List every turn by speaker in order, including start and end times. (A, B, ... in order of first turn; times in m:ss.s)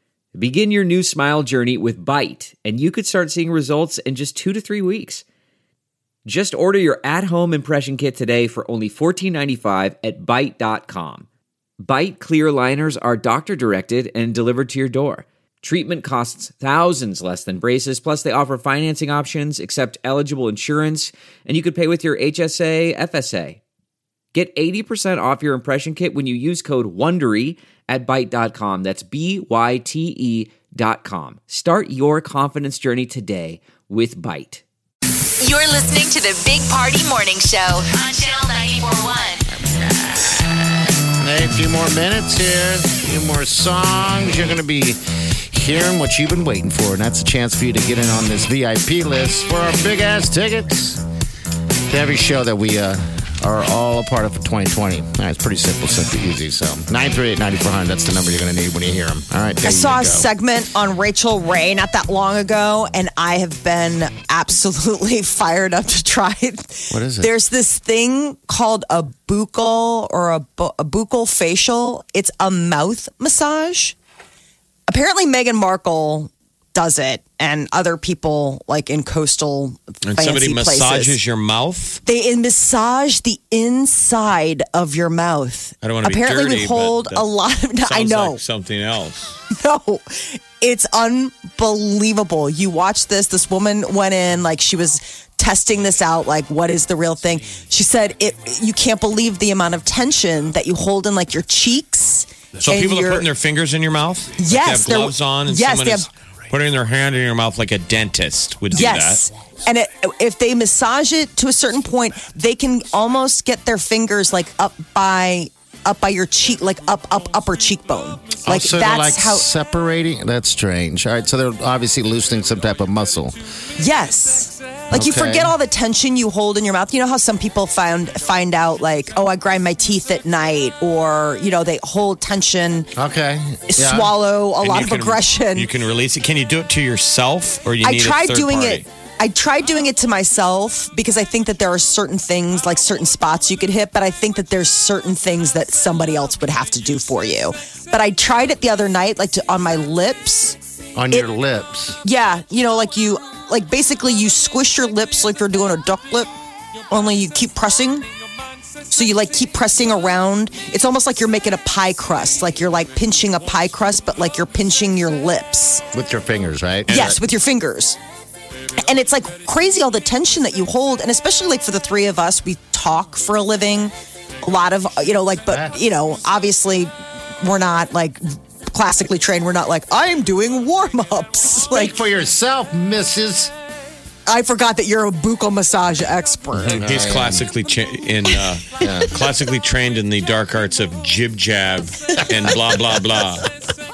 0:00.4-0:05.2 A
0:06.3-0:11.3 A
0:11.8-0:23.6 A
0:24.3-0:34.6 A
0:35.4-0:39.4 B
0:39.6-0:40.4 C
0:41.2-0:45.0 C
0:45.5-0:51.0 C
0:51.9-1:00.3 C
0:59.6-1:14.0 D
1:06.9-1:07.3 C
1:14.9-1:21.2 D
1:20.1-1:22.0 E
1:22.1-1:28.4 D
1:25.8-1:27.3 E
1:27.8-1:29.4 E
1:29.5-1:43.3 D
1:42.6-1:49.2 E
1:44.4-1:46.1 D
1:48.7-1:59.5 D
1:58.4-2:03.4 C
2:03.8-2:12.9 D
2:04.9-2:05.5 C
2:13.0-2:14.1 C
2:13.7-2:15.7 D
2:14.6-2:18.8 E
2:17.8-2:30.6 D
2:31.0-2:32.0 C
2:32.0-2:36.3 D
2:36.9-2:38.1 D
2:38.9-2:45.8 D
2:45.9-2:47.1 C
2:46.9-2:47.2 E
2:46.9-2:48.0 D
2:48.8-3:02.0 D
2:55.5-2:55.7 C
3:01.7-3:03.5 C
3:04.3-3:06.8 D
3:06.5-3:07.4 C
3:06.7-3:13.5 E
3:08.8-3:09.2 C